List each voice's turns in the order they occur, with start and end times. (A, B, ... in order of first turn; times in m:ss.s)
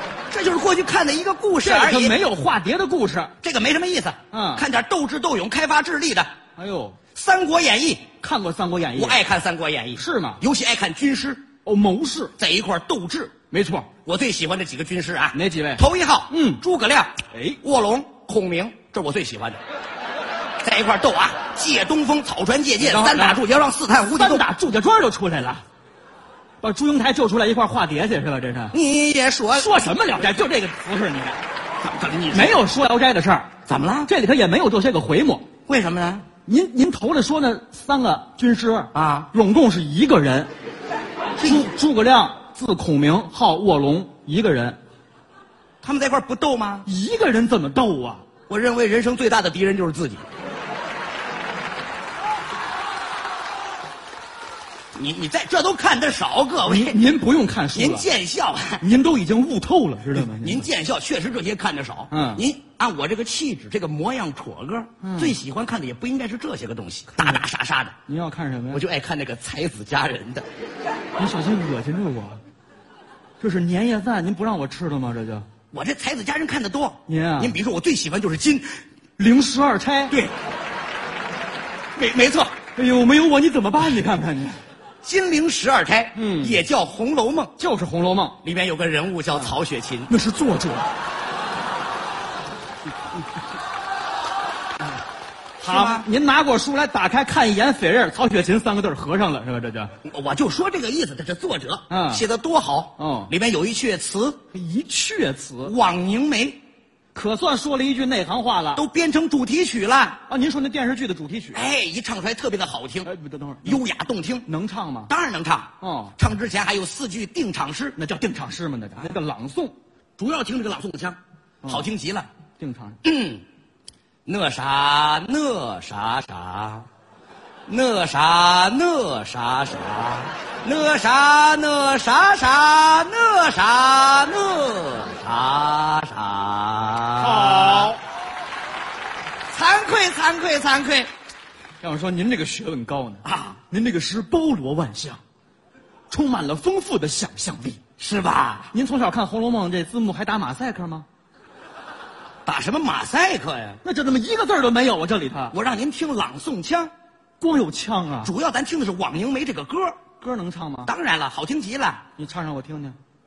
0:00.3-0:02.2 A
0:01.6-0:03.3 B
0:03.4-0:06.3 A
0:04.3-0:04.6 B
0:06.6-0:07.0 B
0:07.1-0:08.1 A
0:08.2-0:09.2 B
0:08.9-0:11.4 A
0:10.0-0:10.4 B
0:11.6-0:12.3 B
0:12.4-0:13.4 A
0:13.5-0:14.0 B
0:14.0-0:19.6 A
0:15.3-0:16.6 B
0:17.3-0:17.6 B
0:20.6-0:24.5 A
0:22.8-0:23.4 B
0:24.1-0:25.6 B
0:26.6-0:28.8 B
0:28.7-0:29.7 A
0:29.5-0:31.4 B
0:31.8-0:32.6 A
0:32.3-0:33.5 B
0:33.6-0:34.1 A
0:34.0-0:35.5 B
0:35.7-0:36.3 A
0:36.4-0:40.5 B
0:38.9-0:39.3 A
0:41.4-0:41.7 A
0:41.4-0:44.8 B
0:45.8-0:46.9 A
0:46.8-0:48.2 B
0:48.5-0:50.2 A
0:54.9-0:57.0 A
0:56.6-0:58.1 B
0:57.7-0:58.8 A
0:58.8-1:00.7 B
1:00.1-1:07.9 A
1:02.1-1:02.4 B
1:05.0-1:05.4 B
1:07.2-1:07.4 B
1:08.1-1:08.8 B
1:08.7-1:10.4 A
1:11.2-1:12.4 B
1:13.4-1:15.5 B
1:15.7-1:18.6 A
1:17.1-1:17.6 B
1:19.2-1:20.2 B
1:22.0-1:22.5 A
1:22.7-1:24.6 B
1:25.0-1:27.5 A
1:26.1-1:26.6 B
1:27.6-1:28.4 B
1:28.4-1:30.1 A
1:30.1-1:30.9 B
1:35.6-1:36.1 A
1:35.6-1:39.9 B
1:40.0-1:44.4 A
1:41.9-1:42.2 B
1:43.0-1:43.3 B
1:44.5-1:45.7 B
1:45.6-1:46.6 A
1:47.1-1:48.8 B
1:48.7-1:50.2 A
1:50.3-1:51.7 B
1:51.5-1:53.1 A
1:53.0-1:53.8 B
1:53.6-1:54.5 A
1:54.4-1:55.1 B
1:55.1-1:58.0 A
1:55.8-1:56.2 B
1:57.9-1:59.7 B
2:00.2-2:02.3 A
2:01.6-2:01.9 B
2:02.6-2:03.0 B
2:03.0-2:03.4 A
2:04.2-2:06.8 A
2:07.7-2:17.9 A
2:17.2-2:18.0 B
2:19.5-2:21.1 A
2:21.8-2:25.2 B
2:23.2-2:23.6 A
2:26.1-2:27.8 B
2:28.0-2:28.7 A
2:28.7-2:31.1 B
2:32.4-2:33.8 A
2:33.8-2:35.6 B
2:35.5-2:36.9 A
2:37.4-2:38.3 B
2:38.2-2:40.0 A
2:40.2-2:40.9 B
2:40.8-2:42.0 A
2:42.2-2:43.0 B